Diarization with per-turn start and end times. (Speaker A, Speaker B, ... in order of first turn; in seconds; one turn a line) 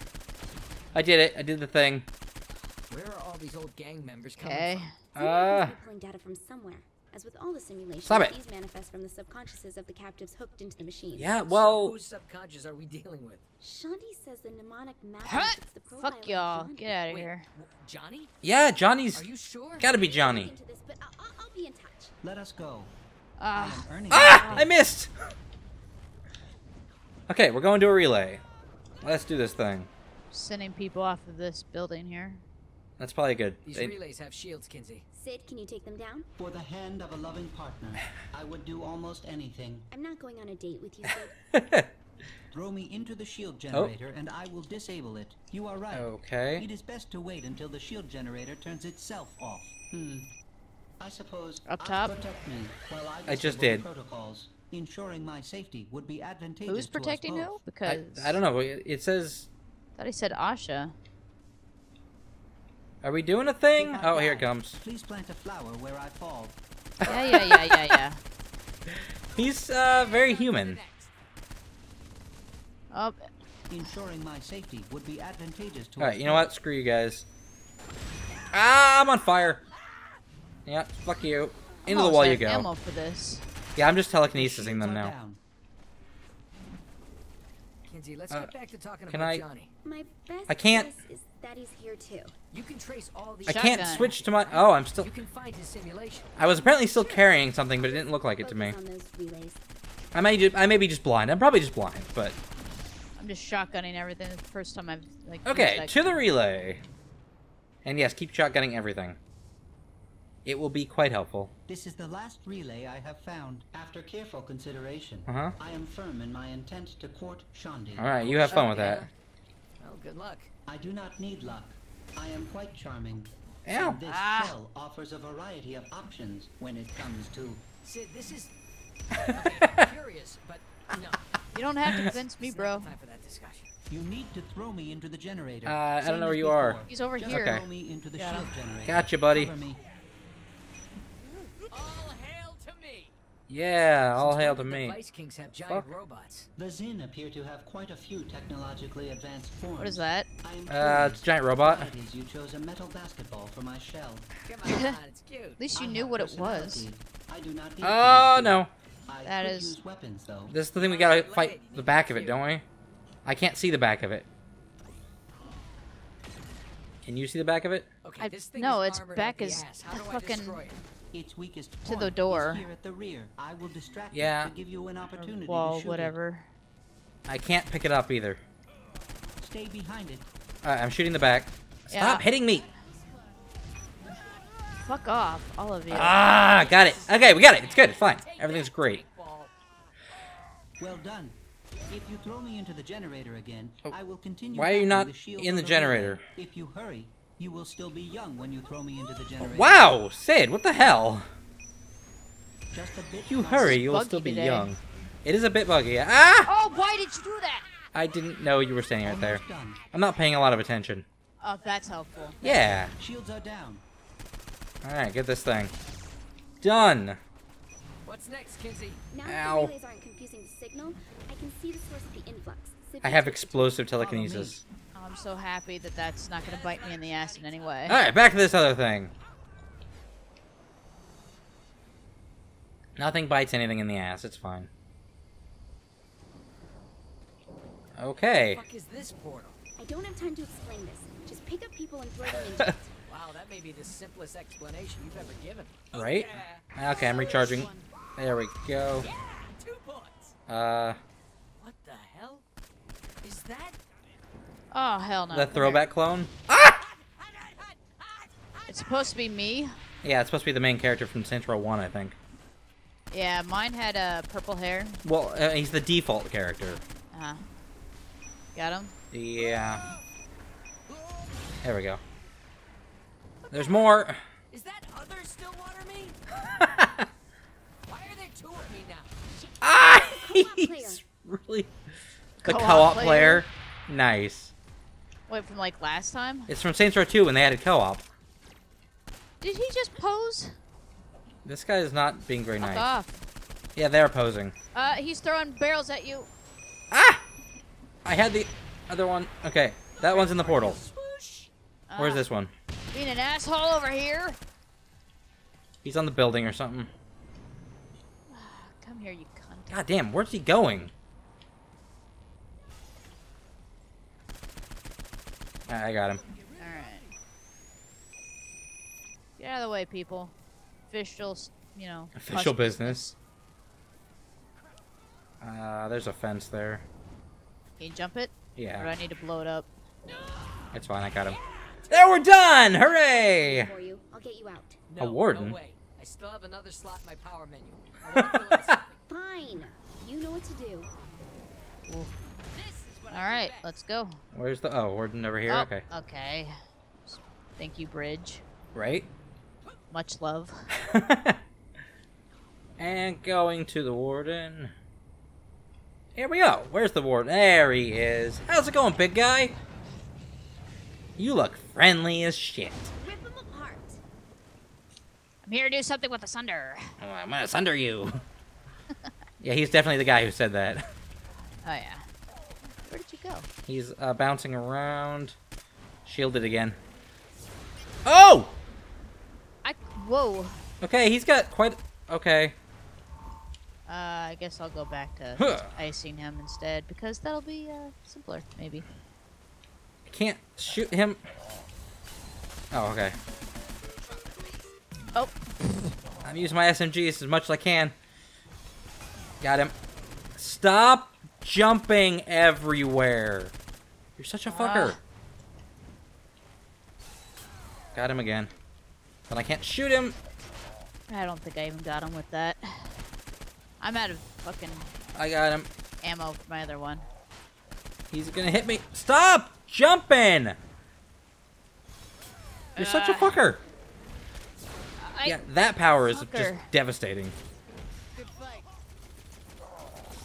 Speaker A: 0.9-2.1
Speaker B: 2.9-4.9
Speaker C: 4.4-5.0
Speaker D: 5.1-11.4
Speaker A: 5.2-5.8
Speaker A: 8.1-8.4
Speaker A: 11.2-11.9
Speaker B: 11.5-13.4
Speaker D: 13.6-17.2
Speaker C: 15.2-17.5
Speaker B: 17.1-18.3
Speaker A: 18.4-19.2
Speaker B: 19.1-19.9
Speaker A: 19.8-20.5
Speaker D: 19.9-22.1
Speaker E: 22.2-22.9
Speaker C: 23.4-24.7
Speaker E: 23.5-24.7
Speaker A: 24.1-25.1
Speaker A: 27.3-28.4
Speaker A: 29.0-29.9
Speaker C: 30.3-32.4
Speaker A: 33.0-34.0
Speaker B: 33.6-35.1
Speaker D: 35.1-36.3
Speaker E: 36.4-39.9
Speaker D: 39.9-41.4
Speaker A: 41.5-41.9
Speaker E: 42.5-50.3
Speaker A: 45.9-46.7
Speaker E: 51.0-57.6
Speaker C: 51.7-52.2
Speaker A: 53.3-53.9
Speaker C: 56.7-58.4
Speaker A: 57.9-59.5
Speaker C: 60.0-61.0
Speaker A: 63.0-64.8
Speaker E: 63.8-66.6
Speaker A: 67.0-68.0
Speaker C: 67.0-68.2
Speaker A: 69.3-70.8
Speaker B: 70.0-71.1
Speaker C: 72.9-73.3
Speaker E: 73.7-76.5
Speaker A: 76.0-77.2
Speaker A: 78.5-79.6
Speaker A: 80.7-82.7
Speaker C: 81.9-83.5
Speaker A: 83.8-85.1
Speaker E: 84.3-85.4
Speaker B: 87.9-89.7
Speaker A: 89.1-89.4
Speaker D: 89.8-92.3
Speaker A: 90.5-90.9
Speaker B: 92.5-96.4
Speaker A: 93.5-95.1
Speaker C: 93.5-94.2
Speaker A: 96.4-98.8
Speaker D: 96.7-99.6
Speaker A: 100.1-102.4
Speaker C: 103.2-106.2
Speaker A: 105.5-106.8
Speaker A: 107.8-109.2
Speaker A: 110.5-111.5
Speaker E: 111.7-118.6
Speaker A: 115.3-115.5
Speaker A: 118.0-119.1
Speaker B: 118.2-119.1
Speaker B: 119.8-120.5
Speaker E: 120.7-127.6
Speaker A: 123.7-124.0
Speaker C: 124.1-124.5
Speaker B: 127.8-128.5
Speaker B: 129.2-131.4
Speaker C: 131.5-132.9
Speaker A: 131.9-132.1
Speaker B: 132.3-133.7
Speaker E: 133.9-139.8
Speaker A: 135.7-137.6
Speaker C: 136.9-137.6
Speaker C: 138.2-138.6
Speaker A: 138.8-139.5
Speaker B: 141.7-143.2
Speaker A: 143.5-145.0
Speaker B: 144.1-146.5
Speaker A: 145.7-145.9
Speaker E: 146.6-154.3
Speaker C: 149.8-150.3
Speaker A: 150.7-151.9
Speaker B: 154.5-155.6
Speaker C: 154.7-155.0
Speaker C: 155.6-156.8
Speaker E: 155.7-160.6
Speaker A: 157.8-158.7
Speaker C: 159.2-159.8
Speaker A: 160.5-162.6
Speaker B: 160.8-162.4
Speaker A: 163.2-164.3
Speaker A: 167.1-167.9
Speaker B: 168.0-170.8
Speaker C: 168.2-170.6
Speaker E: 171.1-176.2
Speaker C: 171.8-172.7
Speaker A: 174.1-174.5
Speaker C: 175.2-176.5
Speaker A: 177.3-178.4
Speaker E: 179.4-180.3
Speaker A: 180.6-182.7
Speaker C: 181.9-182.3
Speaker C: 184.8-186.1
Speaker A: 185.9-189.0
Speaker B: 186.1-189.5
Speaker E: 190.8-199.9
Speaker A: 194.5-196.2
Speaker A: 199.4-201.3
Speaker E: 202.7-203.9
Speaker A: 203.3-206.5
Speaker C: 203.7-204.7
Speaker C: 206.5-207.7
Speaker A: 207.9-211.1
Speaker E: 209.0-209.9
Speaker C: 211.4-212.4
Speaker A: 212.4-212.9
Speaker E: 212.4-213.8
Speaker A: 214.8-215.7
Speaker A: 216.6-217.2
Speaker B: 218.1-219.0
Speaker D: 219.1-223.8
Speaker A: 219.3-219.7
Speaker A: 223.0-224.6
Speaker E: 224.0-224.6
Speaker C: 224.9-228.0
Speaker B: 226.4-228.0
Speaker A: 227.9-229.1
Speaker A: 233.0-234.7
Speaker A: 238.0-238.6
Speaker B: 238.5-239.6
Speaker D: 239.8-242.9
Speaker B: 243.1-246.7
Speaker A: 245.9-249.1
Speaker B: 247.4-247.8
Speaker B: 249.0-250.3
Speaker A: 250.5-251.0
Speaker B: 251.6-252.4
Speaker B: 253.2-253.8
Speaker C: 254.7-255.8
Speaker A: 255.3-256.8
Speaker B: 256.8-259.1
Speaker C: 258.7-259.7
Speaker A: 260.0-262.2
Speaker C: 263.1-265.0
Speaker A: 265.0-266.8
Speaker C: 267.1-267.4
Speaker C: 268.6-268.9
Speaker A: 269.1-269.8
Speaker B: 270.9-271.4
Speaker A: 271.6-272.0
Speaker A: 273.5-274.2
Speaker B: 274.5-276.2
Speaker A: 276.4-277.1
Speaker B: 277.9-279.2
Speaker D: 279.3-281.1
Speaker A: 279.6-281.7
Speaker C: 282.4-283.5
Speaker A: 282.4-284.5
Speaker C: 285.3-286.5
Speaker A: 286.5-288.1
Speaker C: 289.4-290.6
Speaker A: 291.4-292.9
Speaker C: 292.6-293.2
Speaker A: 293.8-294.6
Speaker C: 294.7-296.3
Speaker A: 296.9-297.2
Speaker A: 298.1-300.8
Speaker B: 300.0-301.5
Speaker C: 301.9-302.2
Speaker A: 302.0-302.5
Speaker C: 302.9-304.4
Speaker A: 305.8-306.9
Speaker C: 308.3-309.9
Speaker A: 309.7-310.9
Speaker A: 315.7-316.2
Speaker C: 316.6-317.1
Speaker C: 319.4-320.3
Speaker C: 320.9-323.1
Speaker A: 322.1-323.1
Speaker A: 325.4-326.8
Speaker C: 327.8-329.7
Speaker A: 328.6-328.9
Speaker A: 330.7-331.4
Speaker B: 331.4-331.8
Speaker A: 331.9-333.7
Speaker D: 332.9-334.8
Speaker B: 334.9-339.0
Speaker A: 335.0-335.6
Speaker A: 338.2-338.7
Speaker D: 339.1-340.9
Speaker C: 341.9-342.1
Speaker B: 342.5-343.7
Speaker C: 343.1-344.2
Speaker A: 344.3-345.9
Speaker C: 345.5-348.4
Speaker A: 348.8-349.1
Speaker C: 349.9-350.7
Speaker A: 350.8-351.4
Speaker A: 352.8-354.7
Speaker A: 356.2-359.6
Speaker A: 361.2-362.9
Speaker D: 363.0-364.0
Speaker C: 365.4-367.0
Speaker A: 367.0-368.2
Speaker A: 369.4-370.9
Speaker C: 371.6-372.1
Speaker C: 372.9-373.5
Speaker A: 373.7-375.4
Speaker A: 376.1-376.8
Speaker A: 378.1-378.6
Speaker C: 379.6-380.6
Speaker A: 380.8-382.5
Speaker C: 383.9-388.9
Speaker A: 385.4-385.7
Speaker A: 390.1-391.2
Speaker A: 392.7-393.2
Speaker C: 395.1-395.7
Speaker A: 396.2-397.9
Speaker A: 399.4-399.7
Speaker A: 400.4-403.5
Speaker A: 404.2-405.0
Speaker C: 404.5-405.0
Speaker A: 407.9-408.5
Speaker A: 409.3-410.2
Speaker C: 411.1-413.0
Speaker C: 413.8-414.9
Speaker A: 415.1-415.7
Speaker C: 416.0-417.1
Speaker A: 418.1-420.6
Speaker A: 422.8-423.6
Speaker C: 422.8-423.4
Speaker C: 425.0-425.4
Speaker A: 425.2-427.4
Speaker C: 426.0-426.7
Speaker B: 428.2-428.6